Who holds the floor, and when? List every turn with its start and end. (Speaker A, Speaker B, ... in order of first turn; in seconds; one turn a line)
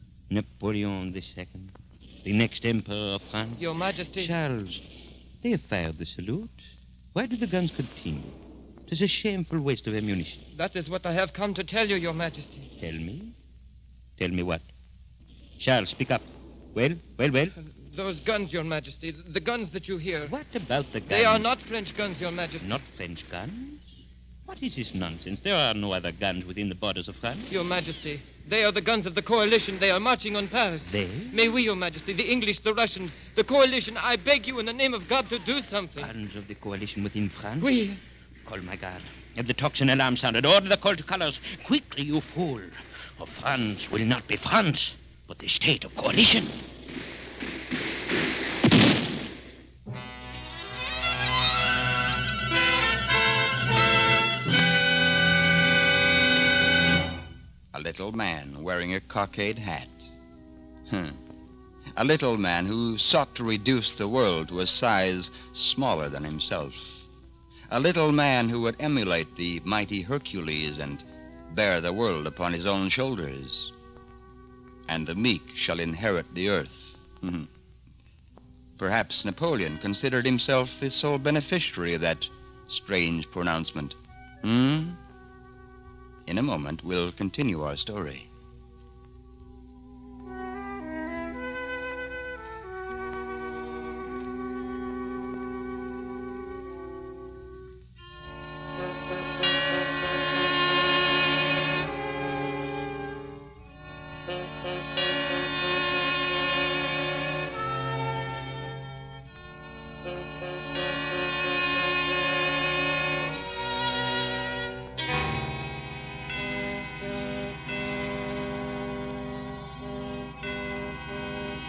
Speaker A: 0.3-4.8
Speaker B: 3.6-4.3
Speaker A: 5.4-6.5
Speaker A: 7.1-10.4
Speaker B: 10.5-12.7
Speaker A: 12.8-13.3
Speaker A: 14.2-14.7
Speaker A: 15.6-17.6
Speaker B: 17.6-20.3
Speaker A: 20.2-21.5
Speaker B: 21.1-22.8
Speaker A: 22.6-23.8
Speaker A: 24.4-27.5
Speaker B: 27.5-36.1
Speaker A: 30.8-31.6
Speaker A: 36.0-46.6
Speaker B: 37.6-38.0
Speaker C: 57.7-60.1
Speaker C: 60.9-61.2
Speaker C: 62.0-67.1
Speaker C: 67.7-73.7
Speaker C: 74.9-77.5
Speaker C: 78.8-85.0
Speaker C: 86.2-88.3